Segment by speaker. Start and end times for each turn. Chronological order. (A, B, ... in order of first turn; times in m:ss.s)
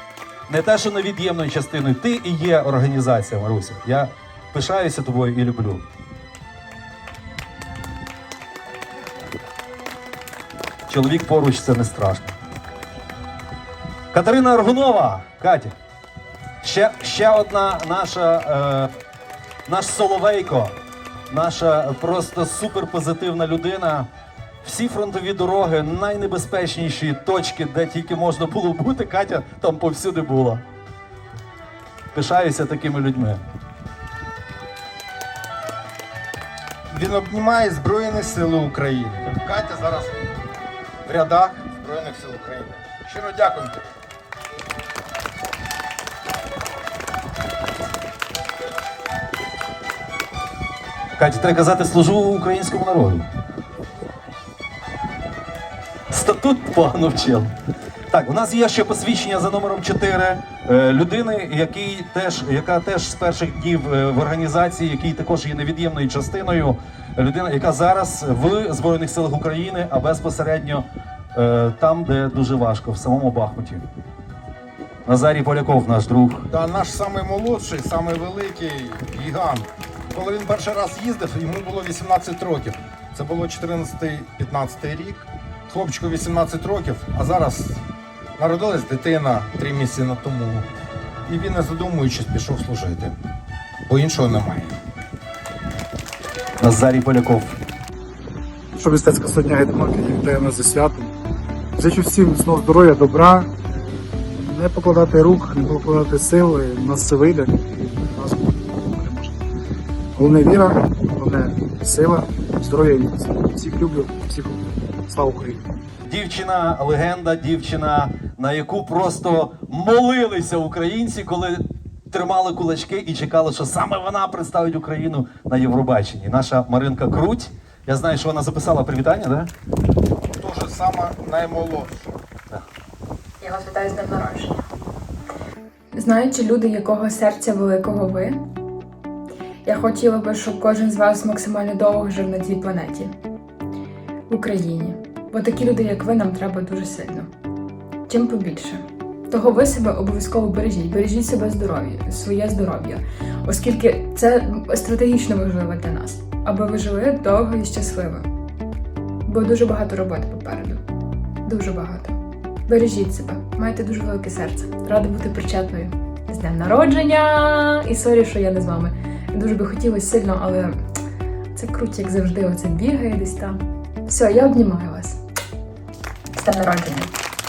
0:00.5-0:05.8 A
0:10.9-0:12.3 A
0:14.1-0:15.7 A
0:16.6-0:18.9 A
0:19.7-0:20.7 A
0:21.3-0:24.1 A
0:24.6-0:30.6 A
0:32.1-0:33.4 A
0:36.9-0:40.2 B
0:41.0-0:43.9 B
0:51.2-0:53.3 A
0:56.1-0:57.5 A
0:58.1-1:13.8 A
1:15.0-1:16.5 A
1:16.5-1:27.8 B
1:28.4-1:30.7 B
1:31.3-1:33.2 B
1:33.9-1:34.8 B
1:36.6-1:37.6 A
1:38.8-1:41.1 C
1:41.8-1:43.5 C
1:44.3-1:49.4 C
1:50.2-1:55.6 C
1:56.1-2:09.5 A
2:10.3-2:12.1 B
2:13.4-2:14.6 D
2:15.9-2:18.4 D
2:19.6-2:23.1 D
2:24.3-2:27.3 D
2:28.1-2:38.2 D
2:39.2-2:40.8 D
2:41.4-2:50.8 D
2:51.5-2:55.2 D
2:56.3-2:57.1 D